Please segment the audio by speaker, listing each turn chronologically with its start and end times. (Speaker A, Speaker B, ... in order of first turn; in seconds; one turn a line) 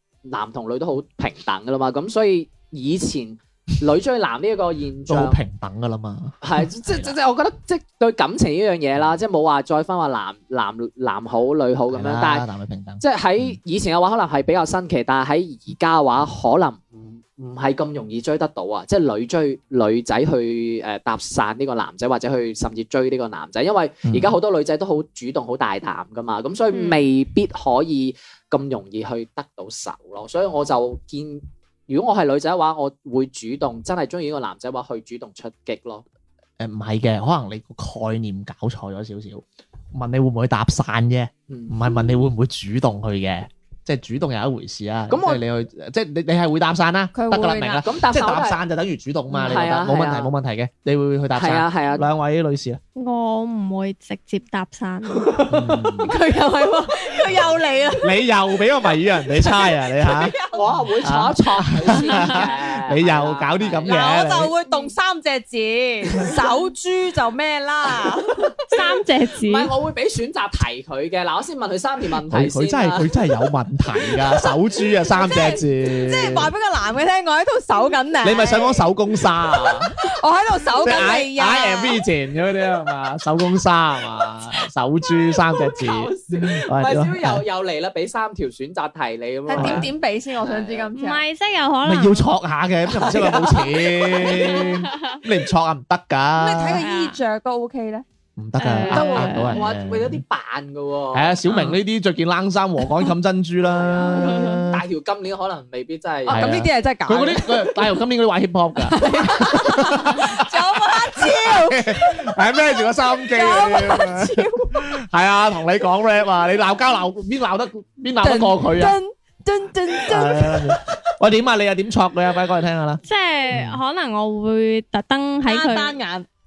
Speaker A: 0.2-5.4
Speaker B: 5.1-7.1
Speaker A: 6.4-12.5
Speaker B: 11.9-13.6
Speaker A: 13.0-36.0
Speaker B: 24.0-24.3
Speaker C: 26.7-27.0
Speaker B: 36.6-52.8
Speaker A: 41.5-42.1
Speaker A: 45.1-45.4
Speaker D: 47.1-47.8
Speaker A: 47.8-48.6
Speaker A: 49.3-50.3
Speaker A: 51.3-52.0
Speaker C: 53.0-55.3
Speaker A: 55.2-55.6
Speaker B: 55.5-56.1
Speaker D: 56.0-58.2
Speaker B: 58.0-60.3
Speaker D: 59.4-60.7
Speaker A: 60.5-64.1
Speaker B: 61.0-64.5
Speaker D: 63.8-68.5
Speaker C: 68.7-69.7
Speaker A: 69.4-73.1
Speaker B: 72.3-76.5
Speaker D: 75.1-78.9
Speaker B: 78.2-79.9
Speaker D: 80.0-82.0
Speaker B: 80.8-87.4
Speaker A: 85.6-90.9
Speaker D: 89.5-91.2
Speaker B: 89.5-89.9
Speaker C: 91.0-92.2
Speaker B: 91.8-96.8
Speaker A: 92.9-94.8
Speaker D: 96.4-98.0
Speaker C: 96.8-97.2
Speaker B: 98.4-100.2
Speaker C: 98.6-99.6
Speaker A: 98.9-101.7
Speaker B: 101.1-104.8
Speaker A: 103.6-106.6
Speaker D: 106.2-107.6
Speaker B: 106.3-119.0
Speaker D: 108.8-114.9
Speaker D: 118.2-120.7
Speaker B: 120.1-123.8
Speaker C: 123.0-126.0
Speaker D: 125.5-126.3